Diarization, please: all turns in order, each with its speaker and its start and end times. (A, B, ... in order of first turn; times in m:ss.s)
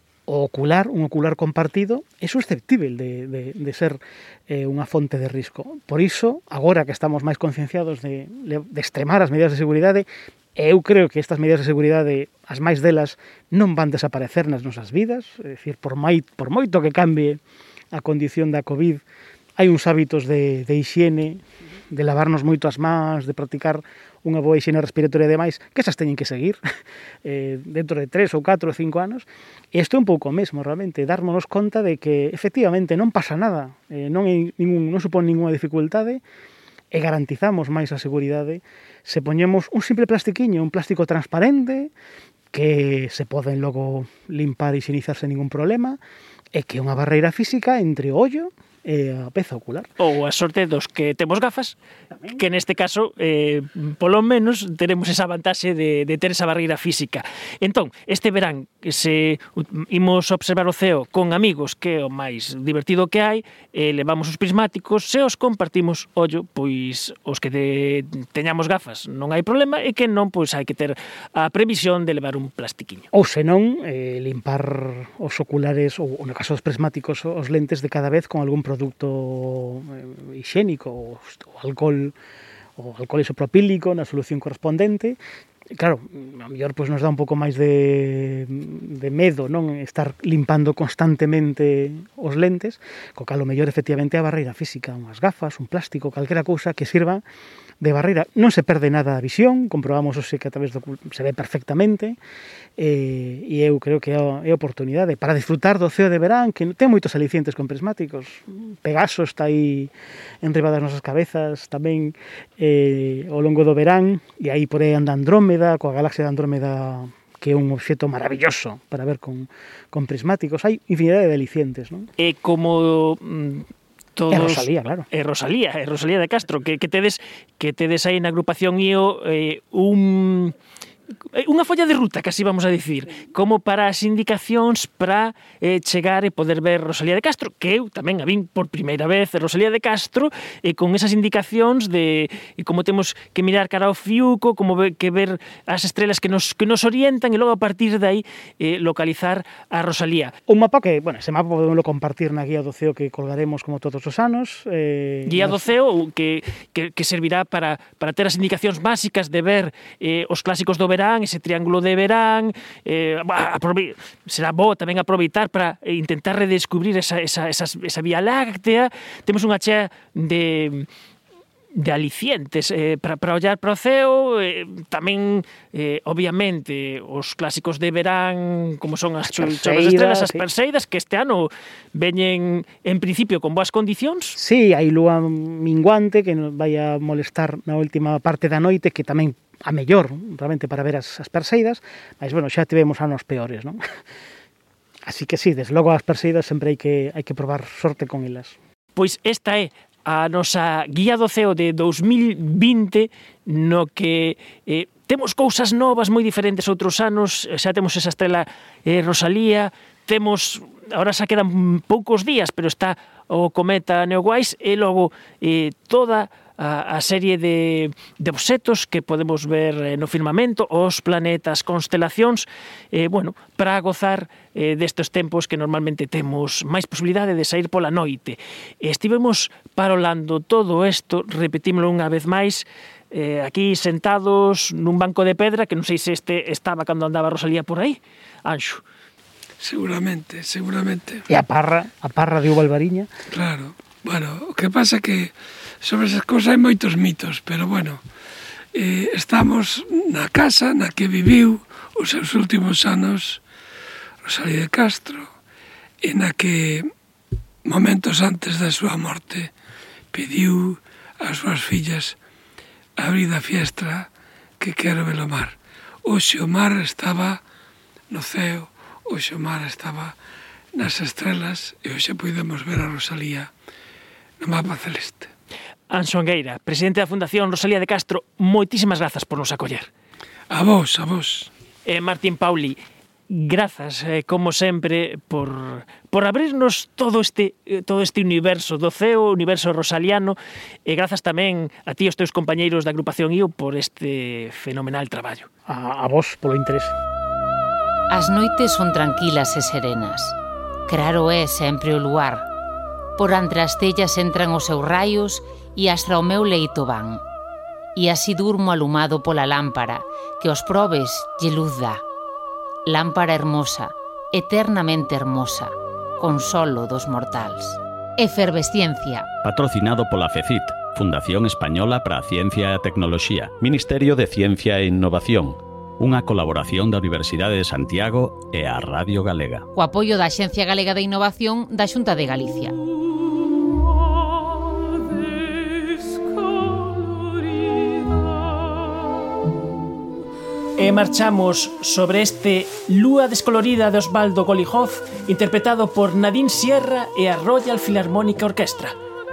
0:00.3-0:17.4 A
0:17.9-0:19.0 A
0:19.6-0:26.6 A
0:27.2-0:36.2 A
0:36.9-0:41.9 A
0:42.5-0:46.0 A
0:46.5-0:49.9 A
0:50.0-0:51.8 B
0:52.1-0:52.4 A
0:52.4-1:13.1 B
1:13.1-1:22.2 A
1:22.8-1:25.2 A
1:25.7-1:37.2 A
1:37.8-1:42.2 A
1:42.8-2:02.1 A
2:02.2-2:10.5 B
2:04.3-2:05.1 A
2:11.3-2:30.4 B
2:30.5-2:35.7 A
2:35.3-2:50.9 B
2:51.8-3:04.4 B
2:59.3-3:00.4 A
3:04.4-3:13.8 A
3:15.0-3:18.6 A
3:19.0-3:58.8 B
3:59.6-4:01.3 C
4:01.3-4:03.1 A
4:03.3-4:08.0 C
4:08.7-4:13.4 C
4:14.2-4:15.3 C
4:16.0-4:16.9 C
4:17.6-4:19.5 C
4:20.1-4:22.2 C
4:23.0-4:24.1 C
4:24.6-4:27.4 C
4:28.1-4:30.2 C
4:30.8-4:33.5 C
4:34.4-4:35.3 C
4:35.9-4:39.9 B
4:40.5-4:41.5 C
4:41.8-4:55.5 B
4:55.7-4:57.0 A
4:58.1-5:02.5 D
5:03.2-5:07.2 D
5:08.0-5:12.0 D
5:12.9-5:19.3 D
5:19.4-5:29.7 E
5:29.8-5:32.8 D
5:40.8-5:49.0 B